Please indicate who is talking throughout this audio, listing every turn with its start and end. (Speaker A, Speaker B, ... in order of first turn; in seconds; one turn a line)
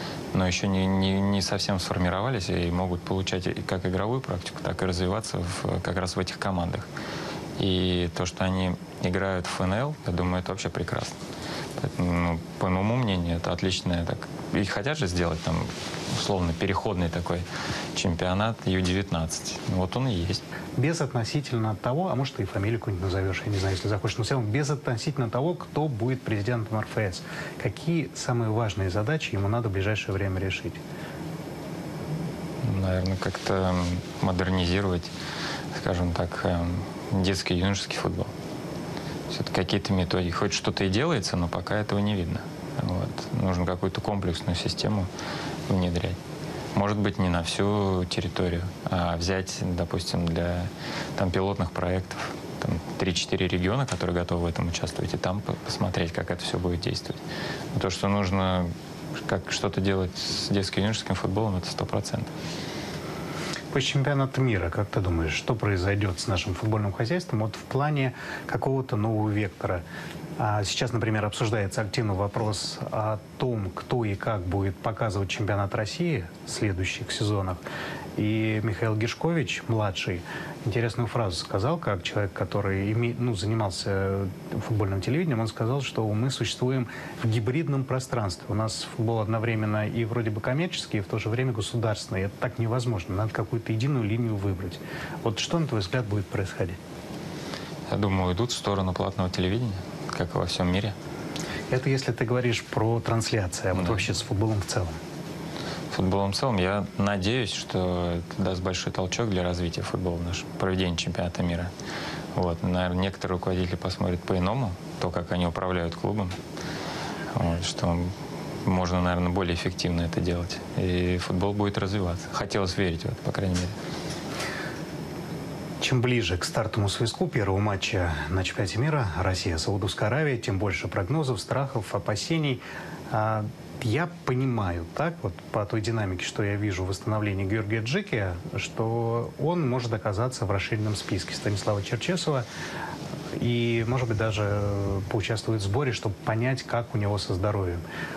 Speaker A: 0.3-6.9
Speaker A: 7.6-11.2
Speaker A: 11.8-20.4
Speaker B: 20.8-30.8
Speaker A: 32.6-35.1
Speaker A: 35.7-38.3
Speaker A: 39.3-45.1
Speaker A: 45.7-46.2
Speaker A: 46.7-57.2
Speaker A: 57.7-58.7
Speaker A: 59.2-62.3
Speaker B: 63.7-69.8
Speaker B: 70.4-77.6
Speaker B: 78.2-96.8
Speaker A: 97.9-101.0
Speaker B: 101.7-105.0
Speaker A: 103.7-104.1
Speaker A: 105.9-111.7
Speaker A: 112.3-116.3
Speaker A: 117.3-118.1
Speaker A: 118.7-123.7
Speaker B: 125.8-142.5
Speaker B: 143.4-147.8